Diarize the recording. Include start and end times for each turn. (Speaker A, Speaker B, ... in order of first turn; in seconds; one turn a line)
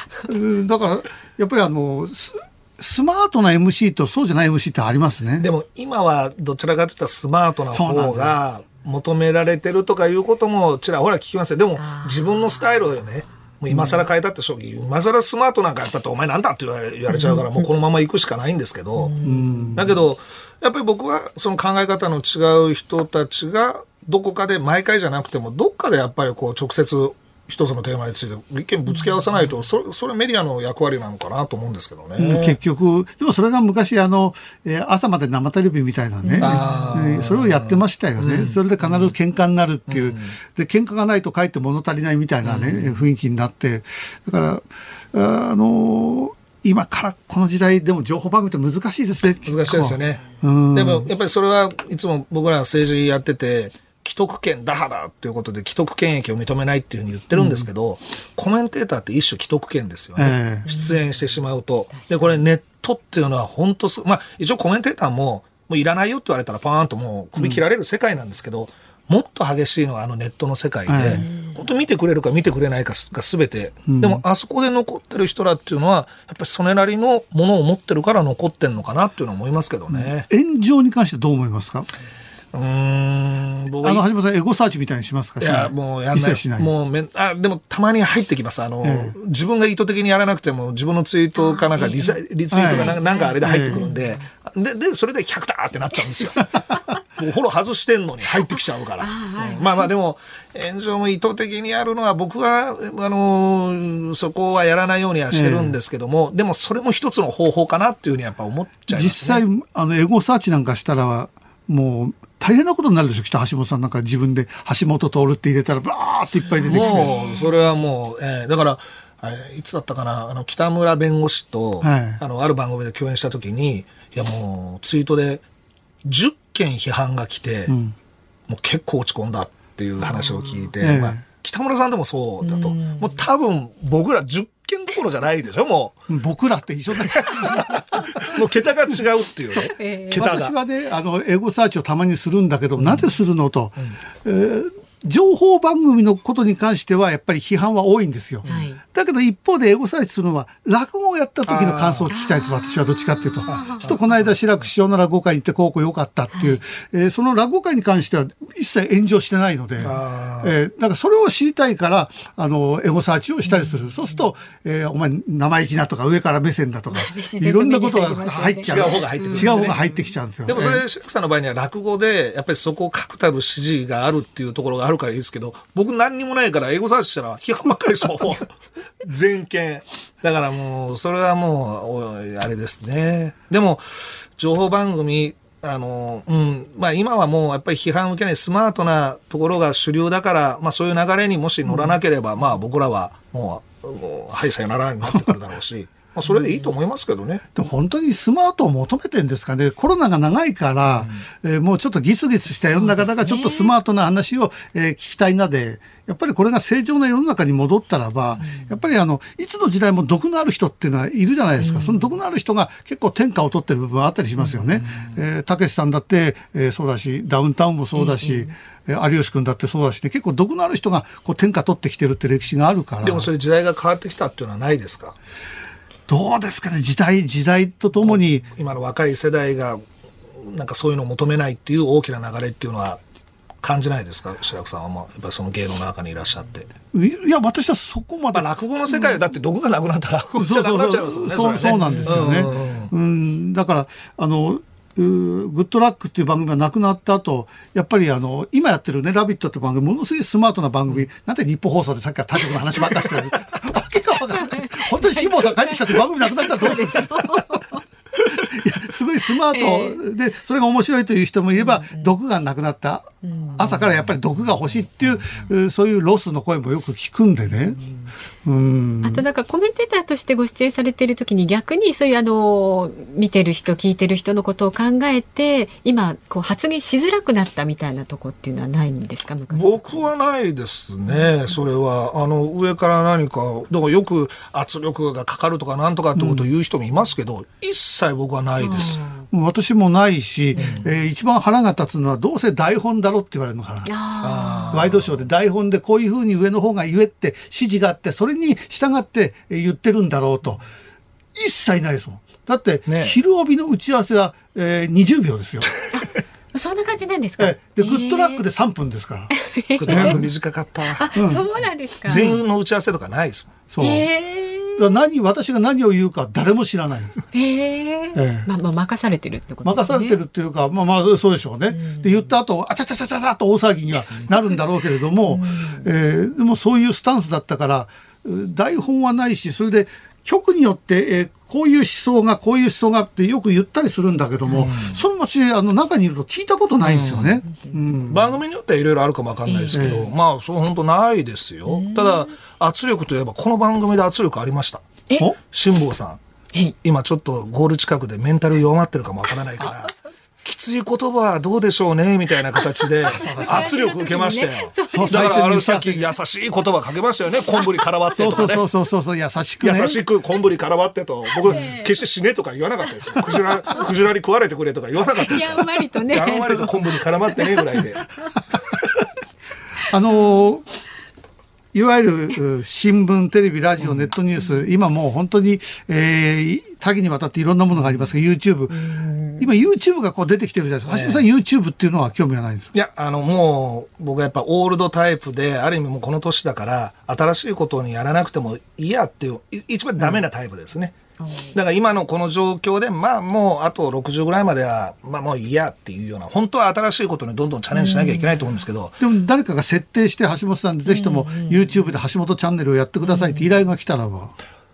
Speaker A: 0.2-5.5
Speaker B: 5.4-19.1
Speaker A: 7.7-8.4
Speaker C: 11.8-12.5
Speaker C: 19.0-19.7
Speaker A: 19.2-19.9
Speaker B: 19.7-32.6
Speaker A: 32.2-51.1
Speaker C: 36.2-36.9
Speaker B: 36.4-39.1
Speaker B: 39.9-40.3
Speaker B: 42.4-43.0
Speaker B: 49.4-80.3
Speaker A: 57.3-57.7
Speaker A: 60.2-60.7
Speaker C: 60.7-61.0
Speaker C: 61.9-62.4
Speaker A: 67.4-67.6
Speaker A: 70.9-71.2
Speaker C: 71.1-71.6
Speaker A: 73.9-74.2
Speaker A: 79.9-81.9
Speaker B: 82.5-84.0
Speaker A: 83.8-86.7
Speaker B: 85.4-96.7
Speaker A: 88.8-89.2
Speaker C: 91.3-94.2
Speaker A: 92.5-93.8
Speaker B: 97.2-109.4
Speaker C: 99.0-99.9
Speaker A: 105.3-105.7
Speaker A: 108.9-117.1
Speaker C: 116.6-117.6
Speaker B: 116.7-125.4
Speaker A: 121.8-122.2
Speaker B: 126.0-127.8
Speaker A: 127.7-127.9
Speaker B: 128.5-136.0
Speaker A: 130.8-131.2
Speaker C: 132.4-133.2
Speaker A: 136.1-137.6
Speaker B: 137.0-140.5
Speaker A: 139.5-170.8
Speaker C: 139.6-140.3
Speaker C: 148.4-148.8
Speaker B: 151.4-152.1
Speaker C: 152.1-153.8
Speaker B: 153.5-154.3
Speaker C: 156.3-156.6
Speaker B: 159.8-160.5
Speaker C: 166.9-169.9
Speaker B: 168.7-169.8
Speaker B: 170.4-197.4
Speaker A: 197.5-223.3
Speaker C: 202.7-203.7
Speaker C: 211.6-212.1
Speaker B: 214.5-215.1
Speaker C: 217.9-218.5
Speaker B: 223.0-225.1
Speaker A: 226.1-228.5
Speaker B: 228.0-229.8
Speaker B: 230.3-233.0
Speaker B: 233.6-236.7
Speaker A: 236.9-238.5
Speaker B: 238.3-242.9
Speaker A: 240.3-257.4
Speaker C: 254.4-257.8
Speaker A: 258.2-267.8
Speaker C: 259.5-260.0
Speaker C: 261.6-262.1
Speaker C: 263.2-263.6
Speaker A: 268.4-269.2
Speaker C: 269.0-280.1
Speaker B: 279.5-289.0
Speaker A: 286.1-286.5
Speaker C: 288.6-289.2
Speaker A: 289.3-293.9
Speaker B: 290.6-290.8
Speaker C: 293.8-294.8
Speaker B: 294.2-295.2
Speaker A: 294.7-300.6
Speaker A: 301.3-305.7
Speaker B: 302.9-303.2
Speaker C: 305.9-308.4
Speaker A: 307.4-309.3
Speaker C: 309.3-310.2
Speaker B: 309.8-311.5
Speaker A: 309.9-310.3
Speaker C: 310.9-312.4
Speaker A: 311.1-311.4
Speaker B: 312.1-313.5
Speaker A: 312.1-312.4
Speaker A: 313.7-314.1
Speaker C: 313.8-314.9
Speaker A: 314.8-317.2
Speaker C: 317.3-320.2
Speaker A: 318.1-318.5
Speaker A: 319.6-338.4
Speaker C: 321.7-322.2
Speaker C: 325.3-325.8
Speaker B: 334.5-335.0
Speaker B: 336.8-337.4
Speaker B: 338.1-344.9
Speaker C: 339.5-340.0
Speaker A: 339.7-340.1
Speaker C: 341.7-342.3
Speaker B: 345.5-346.2
Speaker B: 346.8-349.9
Speaker B: 350.4-358.6
Speaker C: 352.6-355.4
Speaker A: 353.1-353.7
Speaker A: 354.9-356.1
Speaker A: 358.1-360.0
Speaker B: 359.6-368.0
Speaker C: 361.4-361.9
Speaker C: 365.2-366.7
Speaker C: 368.0-368.3
Speaker A: 369.9-370.7
Speaker A: 371.7-382.7
Speaker C: 378.8-379.4
Speaker B: 380.9-381.2
Speaker B: 382.7-390.9
Speaker C: 391.2-391.5
Speaker B: 391.5-399.0
Speaker C: 397.7-398.4
Speaker A: 399.0-404.3
Speaker C: 400.9-401.7
Speaker C: 403.1-403.4